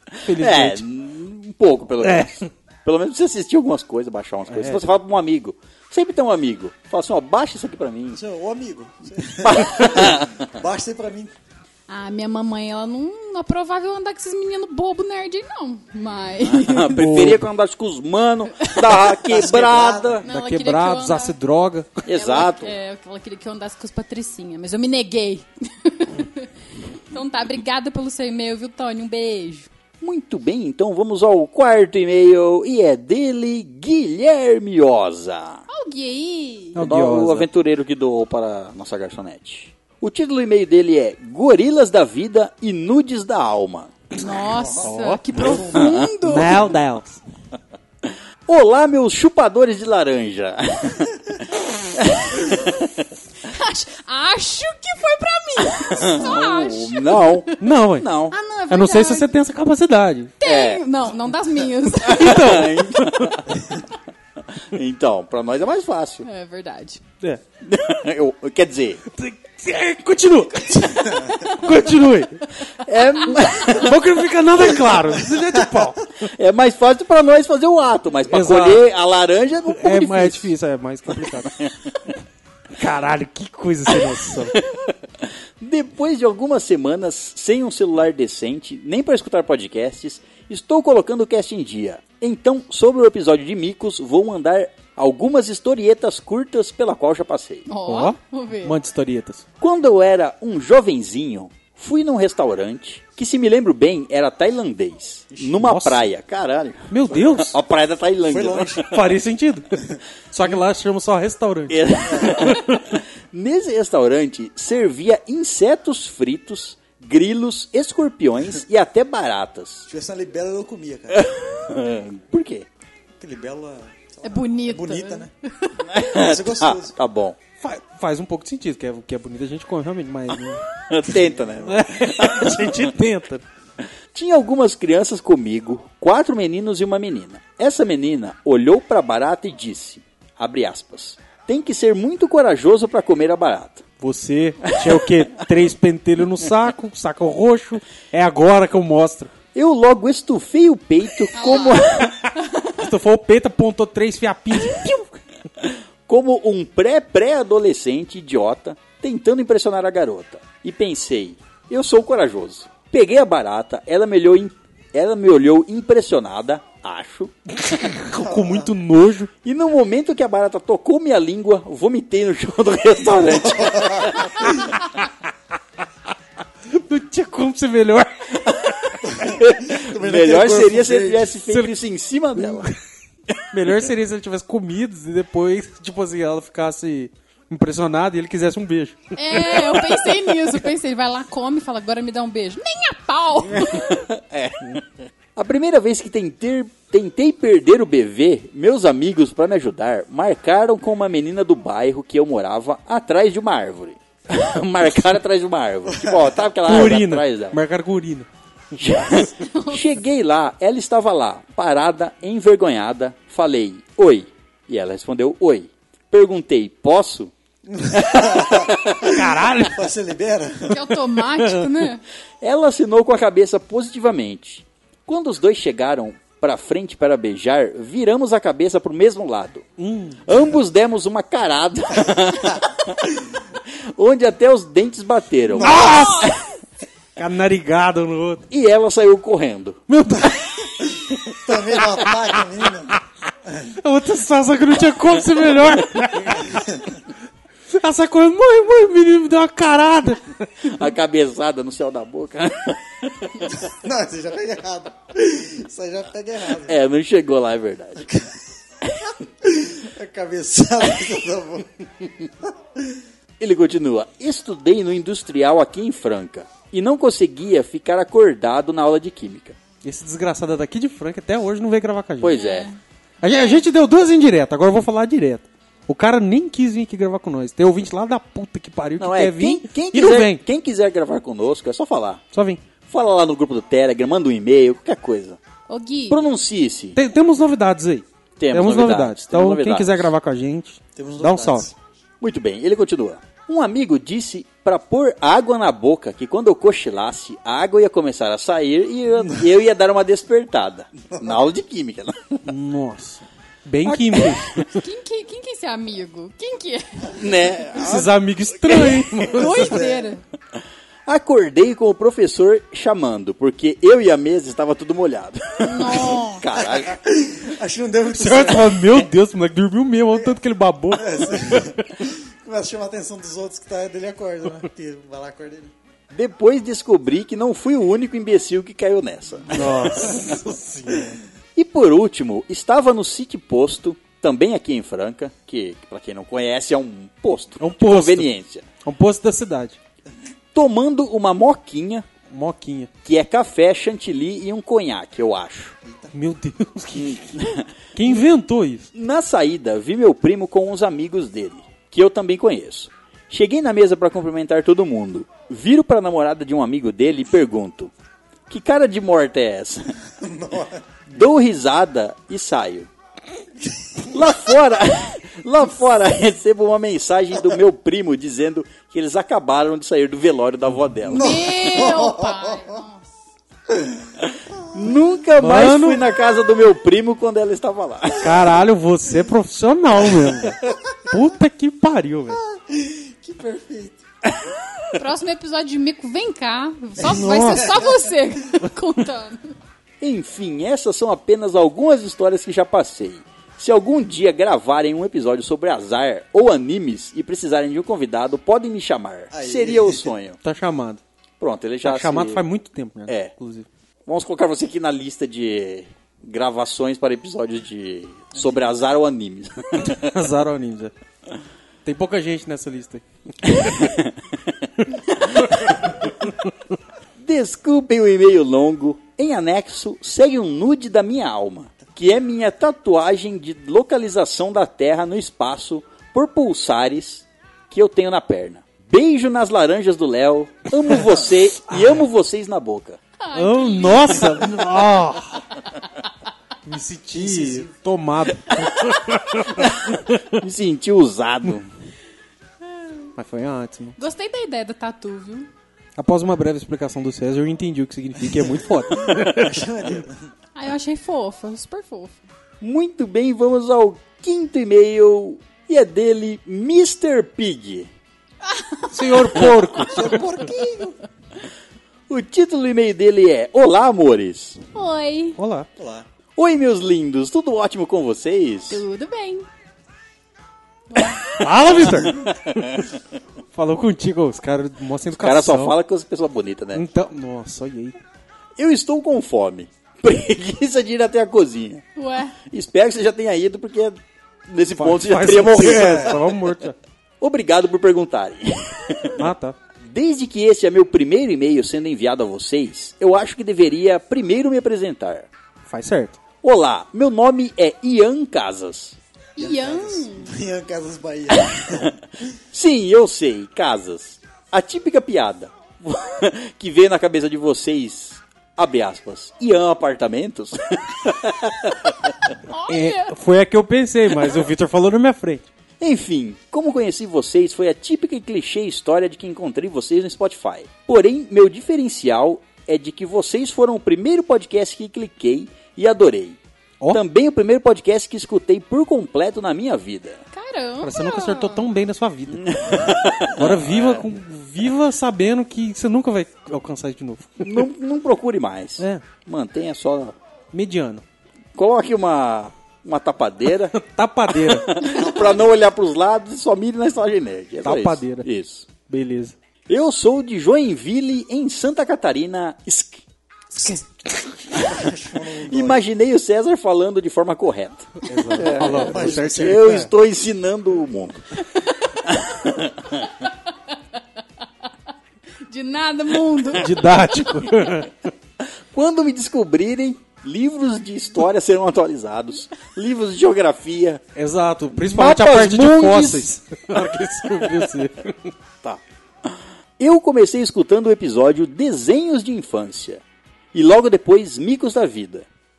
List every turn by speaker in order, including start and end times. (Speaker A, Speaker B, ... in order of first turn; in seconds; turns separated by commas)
Speaker A: 0.2-0.8, Speaker B: 0.3-8.2, Speaker A: 2.0-2.4, Speaker A: 4.5-4.9, Speaker C: 8.1-11.3, Speaker B: 9.4-10.5, Speaker D: 11.9-17.0, Speaker B: 16.4-20.3, Speaker A: 16.9-17.5, Speaker D: 18.6-19.0, Speaker C: 19.1-20.2, Speaker D: 20.2-21.4, Speaker A: 20.2-21.9, Speaker B: 22.1-22.7, Speaker D: 22.1-26.5, Speaker D: 27.1-29.7, Speaker B: 30.0-35.6, Speaker D: 35.7-36.9, Speaker A: 36.7-37.5, Speaker B: 36.8-43.9, Speaker D: 44.1-46.6, Speaker C: 44.4-46.1, Speaker A: 44.8-47.2, Speaker B: 48.5-53.1, Speaker D: 53.4-59.3, Speaker B: 55.8-58.4, Speaker A: 57.6-58.1, Speaker A: 58.7-60.3, Speaker D: 60.4-62.7, Speaker B: 60.4-60.8, Speaker A: 62.0-63.4, Speaker B: 62.0-63.8, Speaker B: 64.5-66.3, Speaker D: 66.2-67.0, Speaker B: 67.6-69.0, Speaker A: 69.1-72.5, Speaker B: 72.8-74.3, Speaker A: 73.5-76.1, Speaker C: 75.2-75.9, Speaker B: 76.2-80.5, Speaker A: 78.3-78.8, Speaker A: 79.8-81.6, Speaker B: 81.2-81.7, Speaker A: 82.7-84.6, Speaker B: 84.5-97.7, Speaker D: 97.7-98.8, Speaker A: 97.9-99.4, Speaker B: 99.6-108.9, Speaker C: 105.3-105.6, Speaker A: 105.5-106.1, Speaker A: 106.9-107.6, Speaker C: 108.2-108.9, Speaker A: 108.9-112.8, Speaker B: 111.7-119.9, Speaker C: 112.0-112.5, Speaker C: 119.9-121.3, Speaker B: 121.1-122.7, Speaker C: 123.2-125.3, Speaker D: 124.2-125.8, Speaker B: 125.8-127.4, Speaker C: 126.0-127.0, Speaker A: 127.6-130.6, Speaker B: 130.8-132.9, Speaker A: 131.6-133.4, Speaker B: 134.1-143.8, Speaker A: 144.0-149.3, Speaker B: 144.7-145.0, Speaker B: 149.5-152.2, Speaker D: 151.3-152.7, Speaker A: 152.8-155.2, Speaker B: 155.6-167.3, Speaker A: 167.6-169.3, Speaker C: 168.1-168.7, Speaker B: 169.4-174.7, Speaker C: 173.3-174.5, Speaker A: 176.7-178.9, Speaker C: 179.0-181.3, Speaker B: 179.1-182.7, Speaker A: 181.5-181.7, Speaker A: 182.4-182.7, Speaker A: 183.5-190.1, Speaker D: 189.1-194.0, Speaker B: 193.6-194.8, Speaker B: 195.3-207.6, Speaker A: 206.6-208.3, Speaker B: 208.8-217.3, Speaker D: 209.4-209.8, Speaker C: 217.7-221.0, Speaker B: 217.9-219.1, Speaker A: 219.0-219.8, Speaker D: 220.7-222.0, Speaker B: 222.4-229.7, Speaker A: 229.8-230.2, Speaker B: 230.2-233.2, Speaker B: 233.9-236.2, Speaker A: 235.6-236.4, Speaker D: 235.6-236.3, Speaker A: 237.2-238.4, Speaker B: 238.5-239.8, Speaker A: 239.9-240.7, Speaker C: 240.8-243.8, Speaker A: 243.8-246.8, Speaker A: 247.7-250.7, Speaker B: 250.6-253.6, Speaker C: 253.6-256.8, Speaker B: 256.6-258.1, Speaker C: 258.0-258.4, Speaker C: 259.4-263.0, Speaker B: 263.4-269.6, Speaker A: 269.8-272.4, Speaker B: 272.2-272.7, Speaker D: 272.3-272.8, Speaker A: 273.2-280.4, Speaker D: 273.3-273.6, Speaker B: 279.0-282.2, Speaker A: 282.3-282.6, Speaker B: 282.8-285.4, Speaker D: 285.7-286.2, Speaker B: 286.1-287.0, Speaker A: 286.9-291.7, Speaker B: 288.4-290.1, Speaker C: 290.9-291.7, Speaker B: 292.2-302.4, Speaker A: 302.5-304.8, Speaker B: 303.9-304.4, Speaker D: 304.7-307.2, Speaker B: 307.1-308.1, Speaker A: 307.8-309.8, Speaker D: 309.1-310.2, Speaker C: 309.4-310.1, Speaker B: 311.1-317.0, Speaker D: 315.6-316.4, Speaker C: 316.6-319.0, Speaker A: 318.1-321.8, Speaker C: 320.9-325.7, Speaker B: 326.1-330.0, Speaker A: 329.5-331.1, Speaker B: 331.6-338.6, Speaker A: 337.6-338.3, Speaker A: 338.8-339.8, Speaker B: 340.5-342.1, Speaker A: 342.3-342.9, Speaker B: 343.0-345.7, Speaker C: 345.8-346.1, Speaker A: 346.1-348.9, Speaker B: 346.9-348.2, Speaker B: 348.9-357.9, Speaker B: 358.5-359.9, Speaker C: 360.2-360.8, Speaker B: 361.1-362.9, Speaker B: 364.0-371.7, Speaker C: 371.1-372.8, Speaker D: 371.1-373.1, Speaker C: 373.7-374.0, Speaker B: 374.2-378.5, Speaker A: 375.4-376.0, Speaker A: 378.2-382.4, Speaker C: 382.3-384.0, Speaker D: 384.9-389.5, Speaker A: 387.0-387.7, Speaker C: 387.6-387.9, Speaker B: 390.0-400.4, Speaker C: 399.3-400.1, Speaker A: 400.4-401.0, Speaker B: 401.4-402.4, Speaker A: 401.8-403.6, Speaker B: 403.1-403.3, Speaker B: 404.1-410.1, Speaker C: 408.3-408.6, Speaker A: 409.9-410.9, Speaker A: 411.8-413.9, Speaker B: 413.4-414.2, Speaker B: 415.0-415.9, Speaker A: 415.4-416.1, Speaker B: 417.2-433.0, Speaker A: 431.7-432.0, Speaker D: 433.2-434.7, Speaker A: 433.3-435.4, Speaker A: 436.6-440.4, Speaker C: 437.1-437.8, Speaker B: 439.5-441.7, Speaker A: 443.1-443.9, Speaker D: 444.0-445.5, Speaker A: 446.0-449.6, Speaker C: 448.9-450.3, Speaker D: 450.5-452.2, Speaker B: 452.6-457.9, Speaker D: 458.4-459.7, Speaker A: 458.9-460.2, Speaker C: 459.8-461.0, Speaker B: 462.1-464.6, Speaker D: 464.7-465.4, Speaker A: 465.4-465.7, Speaker C: 465.8-466.1, Speaker B: 466.4-468.8, Speaker D: 468.7-469.5, Speaker D: 470.9-471.3, Speaker A: 471.4-472.3, Speaker B: 471.7-472.8, Speaker A: 473.5-475.8, Speaker B: 475.1-476.8, Speaker A: 476.7-478.0, Speaker B: 478.6-481.8, Speaker D: 481.9-482.4, Speaker B: 482.5-486.2, Speaker A: 484.8-486.8, Speaker C: 485.5-486.4, Speaker B: 487.2-489.2, Speaker A: 489.2-489.6, Speaker B: 489.8-495.3, Speaker A: 495.6-496.2, Speaker B: 496.4-499.0, Speaker D: 499.4-500.3, Speaker C: 499.4-502.0, Speaker B: 501.5-501.9, Speaker B: 502.5-512.3, Speaker D: 512.5-513.1, Speaker A: 512.7-515.5, Speaker B: 515.8-526.4, Speaker B: 526.9-530.2, Speaker D: 530.3-531.6, Speaker A: 530.8-537.6, Speaker B: 532.3-534.1, Speaker B: 537.4-540.1, Speaker A: 538.8-539.0, Speaker A: 540.5-541.0, Speaker B: 541.5-543.8, Speaker A: 543.7-544.8, Speaker B: 544.3-548.7, Speaker C: 544.8-545.5, Speaker A: 547.6-548.3, Speaker A: 548.9-549.3, Speaker B: 549.7-553.0, Speaker C: 554.5-555.9, Speaker B: 554.5-554.8, Speaker B: 555.5-561.2, Speaker A: 558.0-559.9, Speaker C: 558.2-559.9, Speaker D: 561.6-561.9, Speaker B: 562.0-563.0, Speaker D: 565.5-567.7, Speaker A: 566.5-568.1, Speaker B: 568.4-574.0, Speaker A: 574.1-578.3, Speaker B: 574.7-576.3, Speaker B: 578.6-583.0, Speaker B: 583.5-585.2